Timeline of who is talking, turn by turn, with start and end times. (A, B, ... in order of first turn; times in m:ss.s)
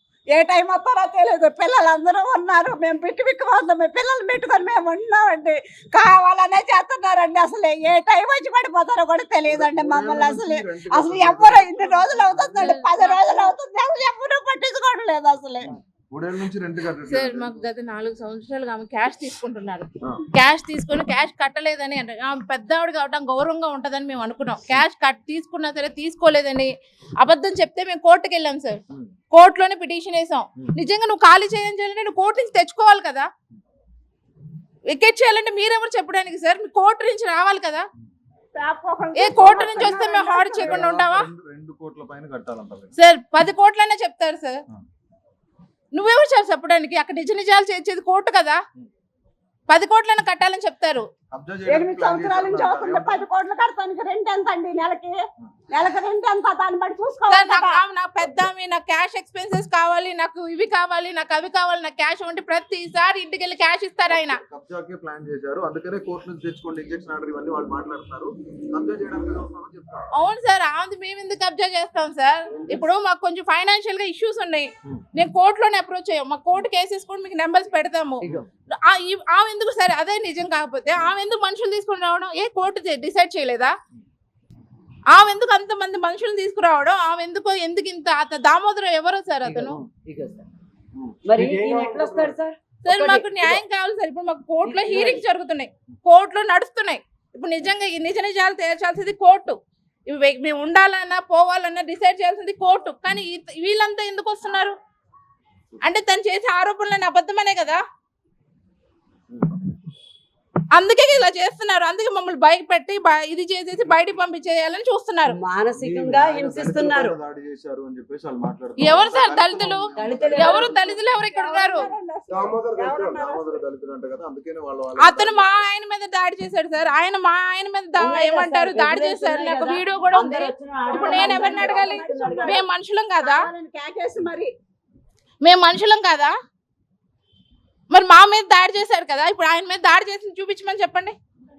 0:00.3-0:15.7 A
0:09.5-0:12.7 B
0:12.5-0:13.5 C
0:15.6-0:17.6 B
0:17.1-0:28.8 C
0:29.3-0:33.3 C
0:34.9-0:37.9 C
0:38.6-0:40.9 A
0:39.2-0:41.3 C
0:40.6-0:42.9 B
0:43.0-0:44.6 C
0:45.9-0:48.6 C
0:49.7-0:51.1 C
0:51.3-0:53.2 B
0:51.7-0:55.2 A
0:55.7-0:57.8 A
0:57.3-1:04.4 C
1:04.1-1:10.1 B
1:10.1-1:18.3 C
1:18.2-1:18.5 B
1:18.8-1:23.7 C
1:25.1-1:29.8 C
1:29.5-1:29.8 B
1:30.1-1:30.5 D
1:31.0-1:32.4 B
1:31.3-1:33.6 D
1:32.8-1:44.8 C
1:34.6-1:35.2 D
1:45.8-1:47.8 C
1:50.7-1:55.4 C
1:55.3-1:57.2 D
1:55.8-2:00.7 B
1:58.8-2:01.9 C
2:00.0-2:00.7 D
2:00.2-2:03.6 A
2:02.3-2:05.5 B
2:05.0-2:13.5 C
2:08.0-2:12.6 D
2:10.9-2:12.6 A
2:13.2-2:14.5 A
2:15.4-2:16.3 C
2:17.9-2:21.2 C